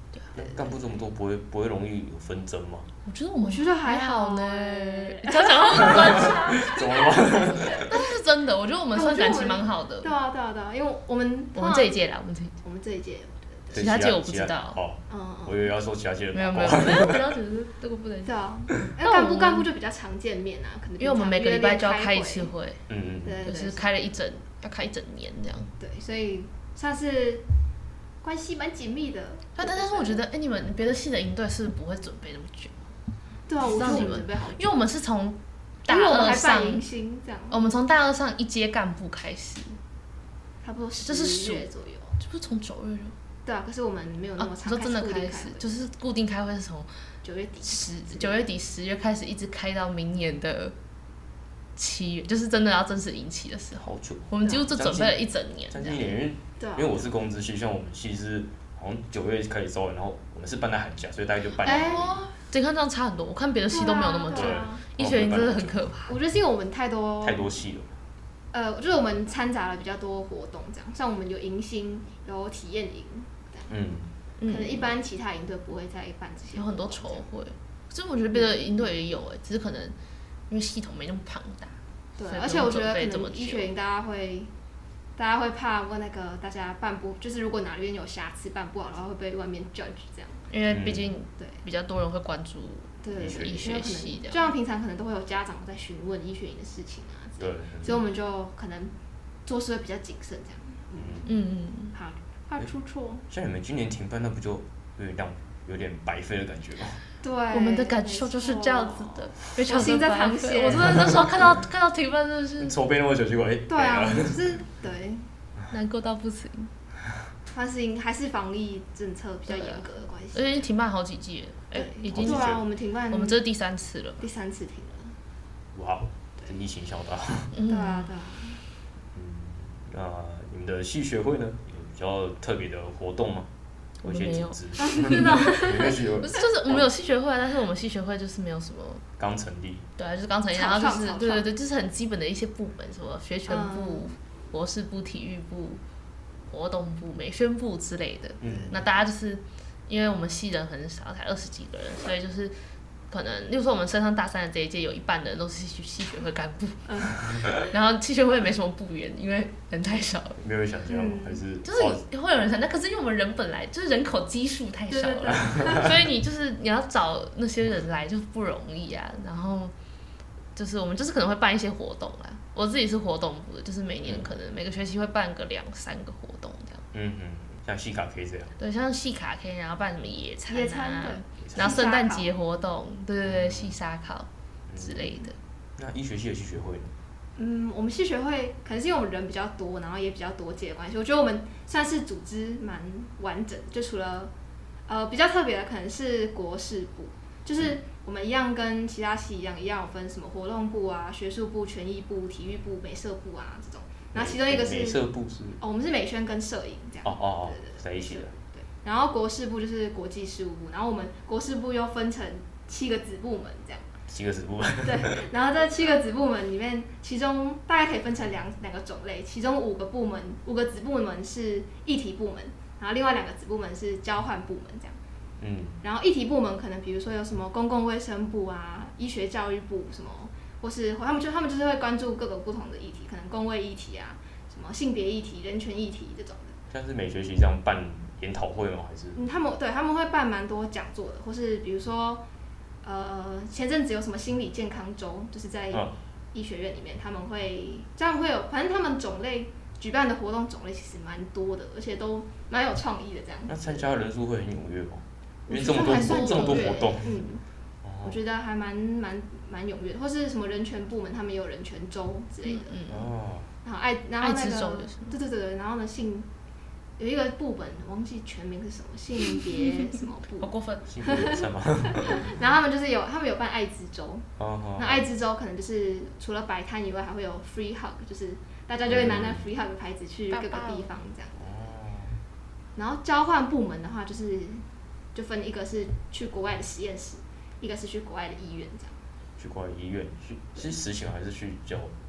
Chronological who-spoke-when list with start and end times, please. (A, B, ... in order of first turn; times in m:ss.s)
0:00.3-0:02.9 A
0:00.4-0:00.7 B
0:03.0-0:06.8 C
0:03.4-0:08.0 B
0:05.8-0:07.9 A
0:07.7-0:10.1 C
0:08.9-0:12.0 B
0:11.5-0:12.6 C
0:12.6-0:13.9 B
0:13.7-0:17.2 A
0:13.8-0:14.8 C
0:15.1-0:15.7 B
0:16.3-0:19.7 C
0:18.2-0:22.5 B
0:21.0-0:22.8 C
0:22.9-0:23.4 A
0:23.2-0:23.9 B
0:23.4-0:25.7 C
0:25.8-0:27.4 B
0:28.2-0:30.2 B
0:29.6-0:32.9 C
0:33.5-0:34.8 B
0:33.6-0:36.8 C
0:35.9-0:37.7 B
0:37.5-0:39.8 C
0:40.6-0:42.2 B
0:41.0-0:41.7 C
0:42.2-0:43.2 C
0:43.4-0:45.7 B
0:44.4-0:46.9 C
0:47.2-0:48.5 B
0:47.6-0:50.8 C
0:51.8-0:56.1 C
0:53.8-1:02.2 A
0:56.6-0:57.1 B
1:01.6-1:02.3 B
1:01.6-1:06.2 C
1:03.7-1:04.8 B
1:04.4-1:05.8 A
1:06.1-1:07.6 B
1:07.2-1:08.0 A
1:08.5-1:13.8 B
1:13.7-1:14.1 A
1:14.4-1:14.9 C
1:14.5-1:17.3 B
1:16.5-1:20.0 C
1:18.3-1:18.7 B
1:20.5-1:21.8 C
1:22.2-1:24.5 B
1:22.3-1:23.7 C
1:25.2-1:30.5 B
1:30.5-1:34.5 C
1:30.7-1:31.1 A
1:31.4-1:31.6 B
1:33.0-1:38.9 B
1:33.2-1:33.6 A
1:37.4-1:38.0 A
1:39.4-1:41.3 B
1:41.0-1:41.3 A
1:41.3-1:42.0 C
1:41.9-1:43.2 B
1:43.3-1:47.0 A
1:47.2-1:51.3 B
1:47.5-1:52.8 C
1:52.6-1:54.6 A
1:53.7-1:55.3 B
1:55.7-1:56.7 C
1:57.5-2:00.7 B
1:59.5-2:02.6 C
2:01.7-2:03.4 B
2:02.1-2:02.6 A
2:03.1-2:04.2 C
2:04.2-2:05.2 B
2:05.7-2:07.6 A
2:07.5-2:08.1 C
2:07.7-2:08.6 B
2:09.1-2:13.5 A
2:14.0-2:16.9 A
2:14.0-2:19.0 C
2:14.8-2:16.0 B
2:19.2-2:19.9 A
2:20.0-2:25.8 C
2:20.5-2:21.5 B
2:23.5-2:24.1 B
2:26.5-2:32.6 C
2:28.4-2:28.8 A
2:28.4-2:28.8 B
2:33.1-2:40.4 C
2:36.9-2:37.2 B
2:40.4-2:42.0 A
2:40.9-2:41.4 B
2:41.6-2:49.7 C
2:44.9-2:45.9 B
2:50.6-2:56.8 C
2:54.0-2:54.3 A
2:56.9-2:58.6 A
2:58.6-3:05.4 C
3:00.5-3:02.3 B
3:01.4-3:01.7 A
3:03.2-3:03.7 A
3:04.7-3:05.1 A
3:05.8-3:06.9 A
3:07.4-3:14.3 B
3:14.9-3:25.1 B
3:24.2-3:25.6 A
3:25.6-3:33.9 B
3:27.0-3:28.3 A
3:34.1-3:35.3 A
3:34.8-3:45.0 B
3:45.4-3:45.8 A
3:45.8-3:56.6 B
3:56.7-3:59.2 A
3:59.2-4:02.2 B
4:02.8-4:13.8 B
4:13.5-4:17.3 A
4:15.5-4:17.4 B
4:15.8-4:16.8 C
4:17.8-4:18.2 A
4:18.0-4:22.8 B
4:22.4-4:23.1 C
4:22.9-4:23.5 A
4:23.6-4:26.3 B
4:24.2-4:25.2 C
4:27.0-4:30.5 B
4:30.4-4:31.0 C
4:30.9-4:32.3 A
4:31.0-4:31.4 B
4:32.0-4:41.6 B
4:34.4-4:35.1 A
4:38.9-4:39.5 A
4:40.3-4:40.9 C
4:41.4-4:42.2 A
4:42.8-4:49.1 B
4:49.4-4:51.9 A